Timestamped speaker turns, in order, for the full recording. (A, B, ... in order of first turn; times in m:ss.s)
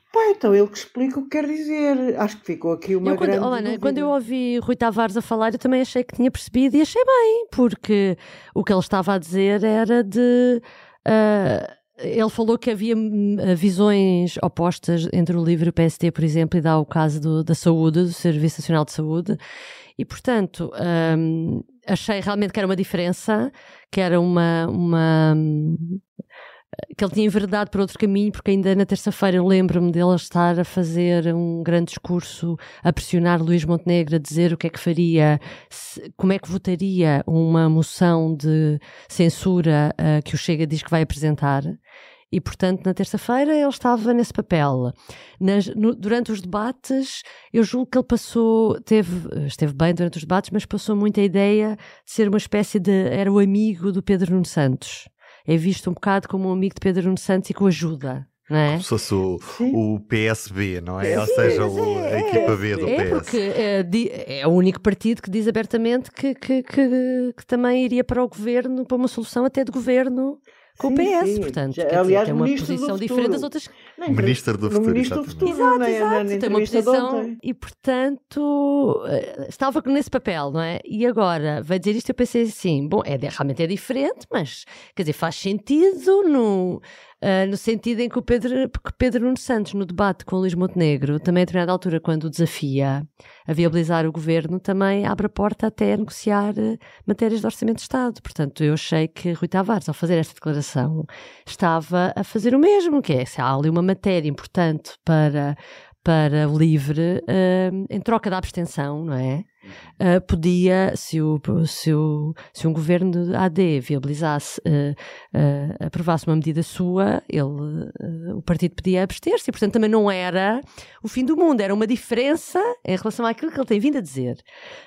0:00.1-0:04.1 A
0:03.0-0:19.4 B
0:20.0-0:26.0 B
0:26.9-0:41.8 B
0:42.3-0:58.8 B
0:58.7-1:03.4 C
0:59.4-0:59.8 A
1:01.0-1:03.2 A
1:01.1-1:13.7 B
1:10.8-1:17.4 A
1:14.1-1:15.5 C
1:15.4-1:49.4 B
1:50.0-2:04.4 B